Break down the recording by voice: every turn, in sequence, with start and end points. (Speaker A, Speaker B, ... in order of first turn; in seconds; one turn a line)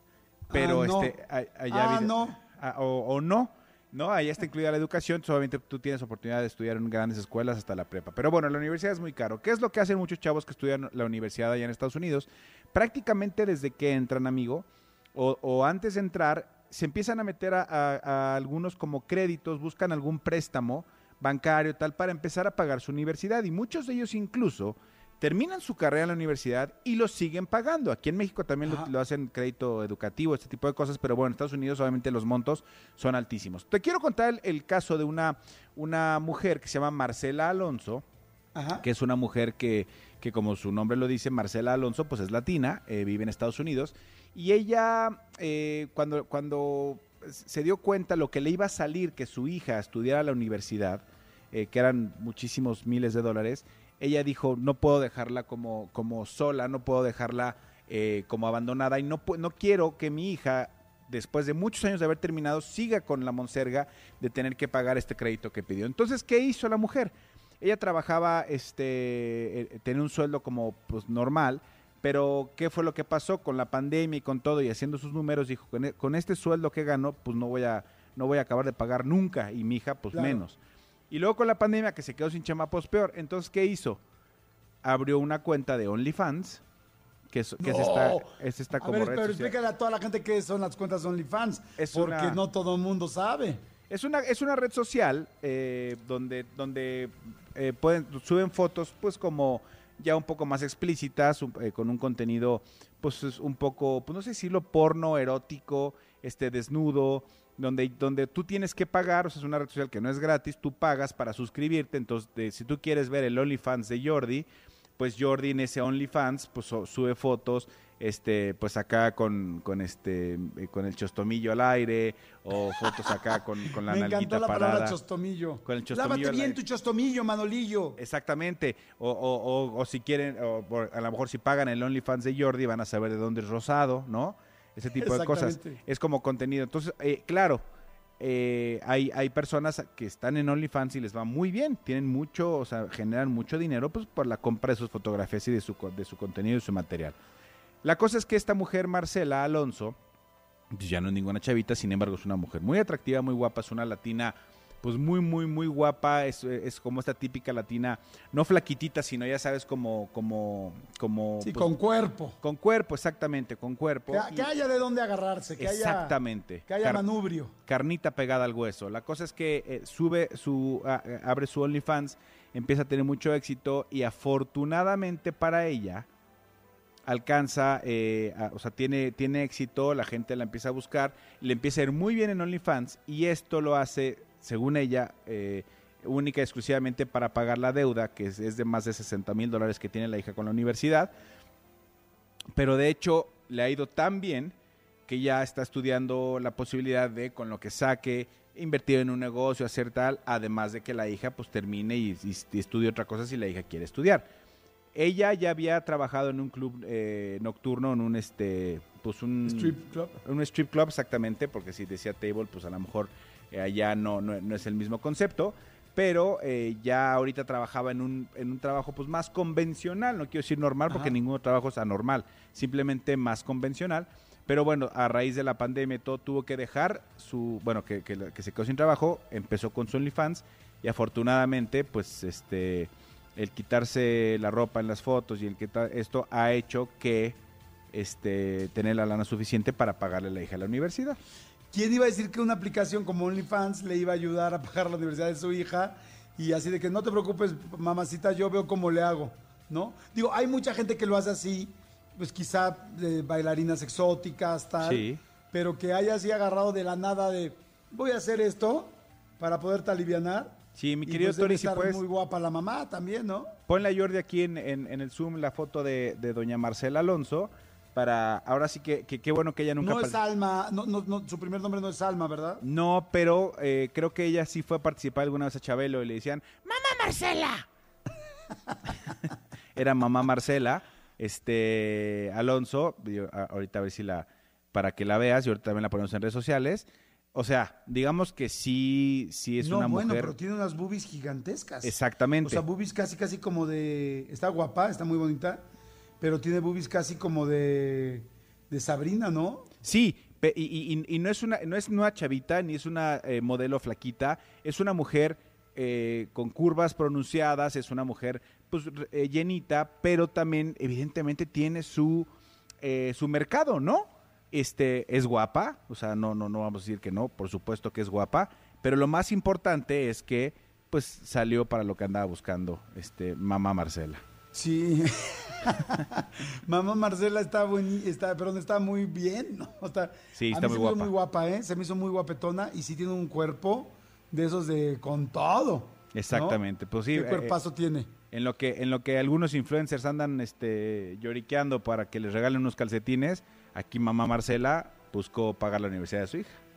Speaker A: 0.5-1.1
Speaker B: 0.5-38.0
Speaker A: 1.7-2.4
Speaker A: 38.5-38.8
Speaker B: 38.8-80.5
Speaker A: 80.1-80.4
Speaker B: 81.1-84.0
Speaker B: 84.8-86.6
Speaker B: 87.3-89.5
Speaker A: 87.6-88.2
Speaker A: 88.8-93.6
Speaker B: 91.8-92.4
Speaker B: 93.9-114.5
Speaker B: 115.0-125.0
Speaker A: 123.8-128.0
Speaker B: 125.7-126.6
Speaker B: 128.0-137.6
Speaker A: 135.0-135.8
Speaker B: 138.2-147.2
Speaker B: 147.8-150.0
Speaker B: 150.7-161.7
Speaker A: 161.4-162.4
Speaker B: 162.4-164.5
Speaker A: 164.1-166.2
Speaker B: 165.6-167.0
Speaker A: 166.7-167.5
Speaker B: 167.7-176.1
Speaker B: 177.1-191.1
Speaker B: 192.5-194.5
Speaker B: 195.1-204.3
Speaker B: 204.9-237.4
Speaker A: 209.4-210.2
Speaker B: 237.9-241.2
Speaker A: 241.7-263.6
Speaker B: 254.8-255.2
Speaker B: 260.8-262.0
Speaker B: 263.7-270.2
Speaker A: 269.8-272.6
Speaker B: 272.6-277.6
Speaker B: 278.9-290.3
Speaker A: 289.6-295.6
Speaker B: 291.8-292.6
Speaker A: 296.2-299.7
Speaker B: 299.8-312.3
Speaker B: 312.8-324.2
Speaker A: 324.5-336.6
Speaker B: 330.4-331.1
Speaker B: 336.1-337.5
Speaker A: 337.1-338.1
Speaker B: 338.3-346.6